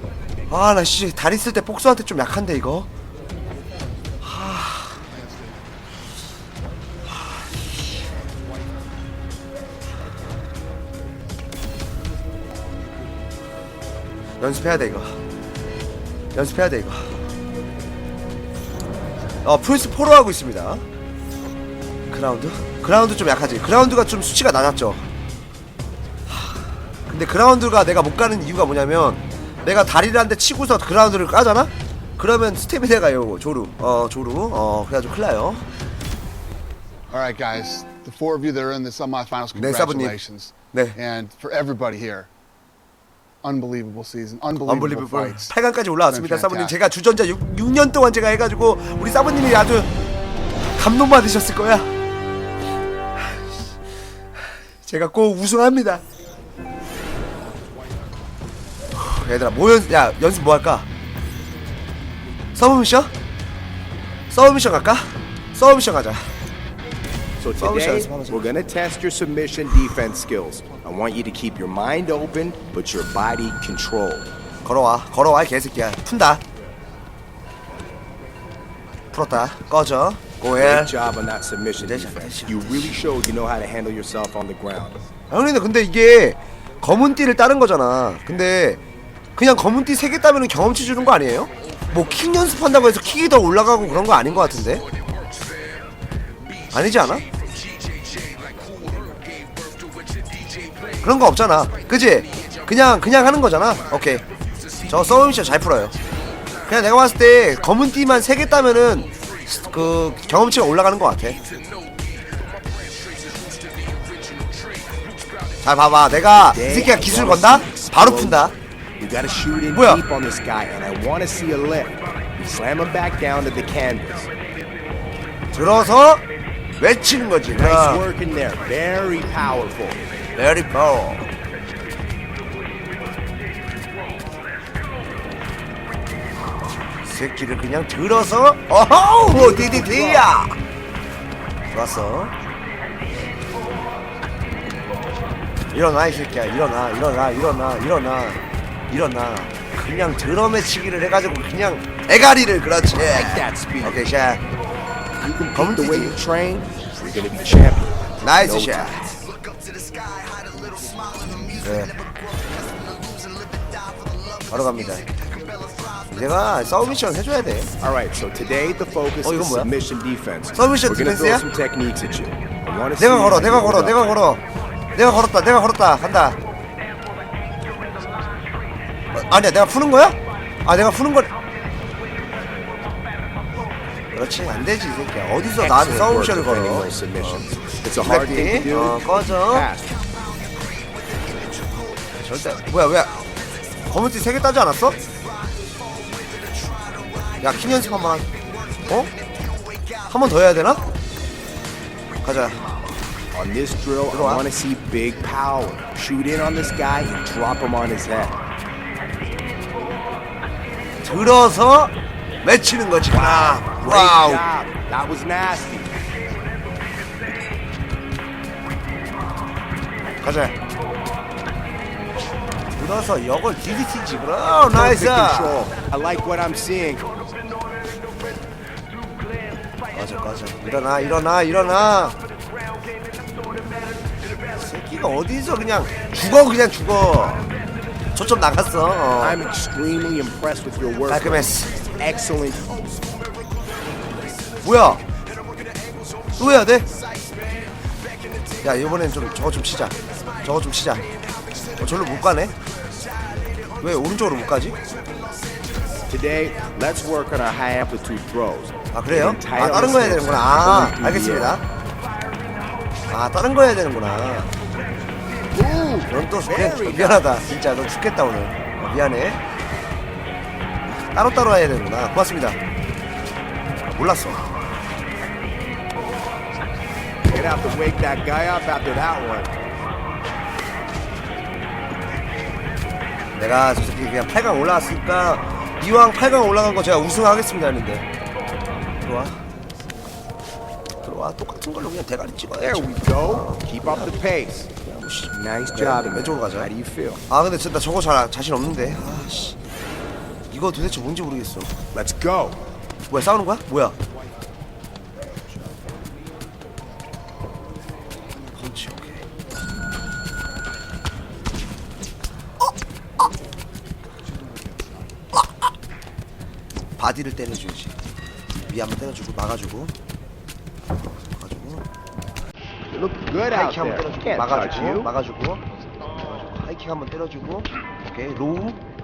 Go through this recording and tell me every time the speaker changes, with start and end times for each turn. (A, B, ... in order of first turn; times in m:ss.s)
0:00.5-0:02.9 A
0:04.2-0:05.0 A
0:07.1-0:07.4 A
0:14.4-0:15.2 A
0:16.3-0:17.2 A
0:19.4-0:20.8 A
0:22.1-0:25.0 A
0:26.3-0:35.6 A
0:37.1-0:42.3 B
0:39.5-0:40.2 A
0:43.4-0:45.5 B
0:44.6-0:49.9 A
0:46.0-0:46.8 B
0:50.8-0:51.9 A
0:53.2-0:53.6 A
0:54.8-0:56.0 A
0:58.9-1:00.9 A
1:02.6-1:03.1 A
1:04.3-1:06.3 A
1:07.4-1:14.3 C
1:07.6-1:08.4 A
1:14.6-1:16.4 A
1:19.1-1:20.9 A
1:20.6-1:25.0 C
1:21.8-1:22.9 A
1:25.3-1:28.8 A
1:29.4-1:34.8 A
1:36.7-1:37.2 A
1:41.0-1:44.2 A
1:44.9-1:45.9 A
1:46.7-1:51.4 A
1:55.6-1:58.5 A
1:56.5-2:04.3 C
1:59.7-2:00.0 A
2:05.5-2:06.2 A
2:06.8-2:08.0 A
2:07.5-2:10.0 C
2:10.4-2:11.3 A
2:17.0-2:20.6 A
2:19.3-2:20.3 C
2:21.7-2:22.3 A
2:25.7-2:34.4 A
2:32.9-2:34.0 C
2:35.2-2:39.2 C
2:35.5-2:36.2 A
2:38.2-2:39.0 A
2:40.1-2:41.6 C
2:41.6-2:41.9 A
2:44.5-2:45.2 A
2:46.0-2:47.7 A
2:47.8-2:54.1 C
2:49.2-2:49.7 A
2:50.5-2:51.4 A
2:53.0-2:54.4 A
2:54.9-2:56.4 A
2:59.1-3:01.3 A
3:04.1-3:07.4 A
3:05.6-3:10.0 C
3:08.0-3:09.7 A
3:12.2-3:13.2 A
3:13.9-3:15.0 A
3:17.4-3:18.3 A
3:18.8-3:19.1 A
3:20.1-3:20.8 A
3:22.2-3:22.6 A
3:23.3-3:28.4 C
3:24.1-3:24.4 A
3:31.0-3:34.4 A
3:33.2-3:35.9 C
3:40.2-3:40.6 A
3:42.8-3:45.7 A
3:44.7-3:47.1 C
3:49.9-3:52.2 A
3:54.6-3:57.4 A
3:58.1-3:59.4 A
3:59.2-4:02.9 C
4:01.1-4:01.8 A
4:04.6-4:05.0 A
4:06.4-4:06.8 A
4:08.6-4:11.1 A
4:11.8-4:12.5 A
4:13.8-4:14.8 A
4:16.1-4:21.6 C
4:18.9-4:21.6 A
4:23.1-4:24.5 A
4:25.5-4:27.4 C
4:26.1-4:29.4 A
4:31.1-4:32.6 A
4:33.9-4:34.4 A
4:37.3-4:39.5 C
4:43.4-4:48.0 A
4:49.0-4:49.4 A
4:51.0-4:54.1 A
4:52.6-4:57.2 C
4:54.8-4:56.7 A
4:57.3-4:59.6 A
5:00.5-5:01.8 A
5:01.9-5:02.6 C
5:03.1-5:04.0 A
5:08.6-5:09.2 A
5:17.0-5:17.9 A
5:18.7-5:19.9 A
5:21.4-5:21.8 A
5:22.9-5:25.1 C
5:23.4-5:25.6 A
5:26.1-5:28.8 A